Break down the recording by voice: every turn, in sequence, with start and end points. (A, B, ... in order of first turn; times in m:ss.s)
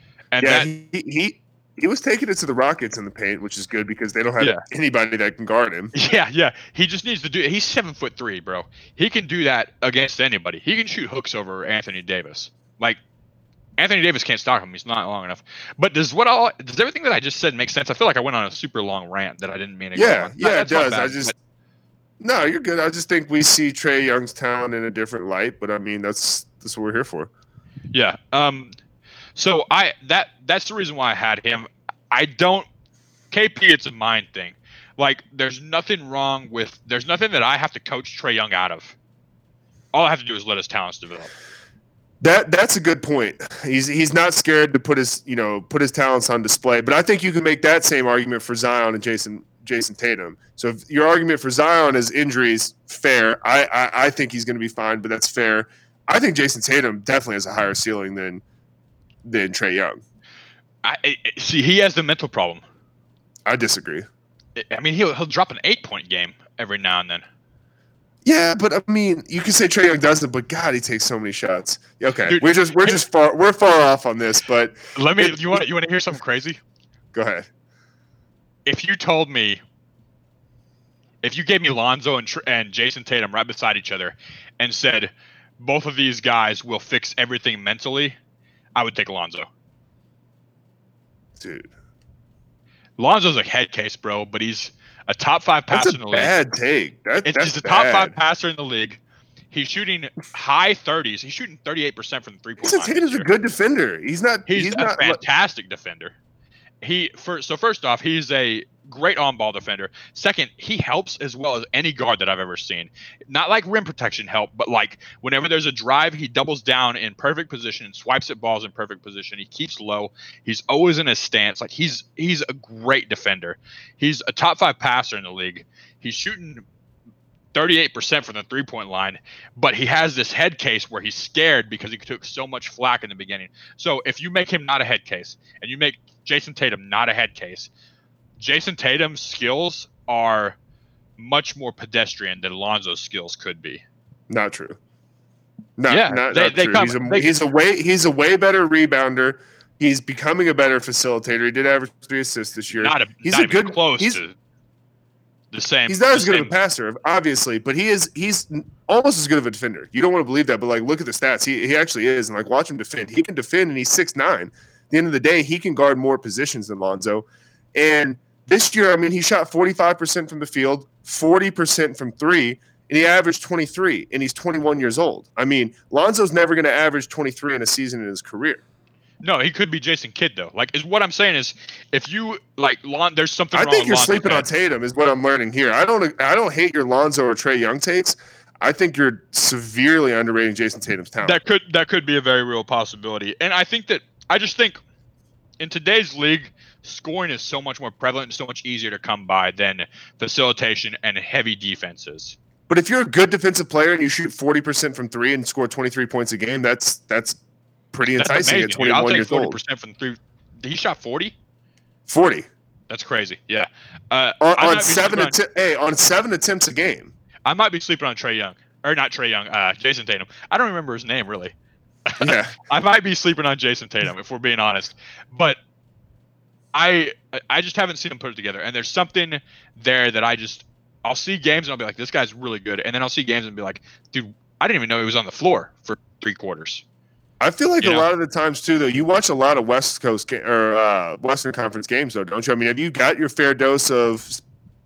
0:00.3-0:00.7 A
0:00.4-0:05.9 B
0:05.9-0:13.0 A
0:13.8-0:21.3 A
0:20.0-0:21.3 B
0:22.2-0:27.3 B
0:27.9-0:28.7 A
0:29.4-0:32.7 A
0:33.3-0:39.0 A
0:39.9-0:41.3 A
0:42.2-0:58.4 B
0:59.2-1:00.0 B
1:00.8-1:02.6 A
1:03.5-1:04.1 B
1:04.6-1:07.2 A
1:08.2-1:15.6 B
1:12.3-1:13.0 A
1:15.0-1:16.6 A
1:17.1-1:17.5 B
1:18.6-1:19.6 A
1:21.2-1:28.2 A
1:28.8-1:29.5 A
1:31.4-1:31.7 B
1:33.0-1:36.4 A
1:35.7-1:38.1 B
1:37.2-1:39.0 A
1:39.5-1:43.3 A
1:42.6-1:45.2 B
1:44.5-1:46.1 A
1:46.8-2:06.6 A
2:07.5-2:17.7 A
2:18.4-2:20.6 A
2:21.2-2:23.8 A
2:24.3-2:24.8 B
2:25.8-2:34.2 B
2:25.9-2:27.4 A
2:32.8-2:34.4 A
2:35.5-2:36.5 A
2:35.9-2:58.6 B
2:59.2-3:04.5 A
3:03.5-3:11.4 B
3:11.2-3:14.8 A
3:15.6-3:22.4 A
3:22.7-3:27.4 B
3:27.9-3:29.6 B
3:28.1-3:31.4 A
3:32.1-3:32.5 B
3:32.9-3:35.4 A
3:34.4-3:37.1 B
3:37.5-3:41.5 A
3:42.1-3:45.6 A
3:42.2-3:42.5 B
3:46.7-3:56.8 A
3:57.4-4:04.4 B
3:57.8-3:58.1 A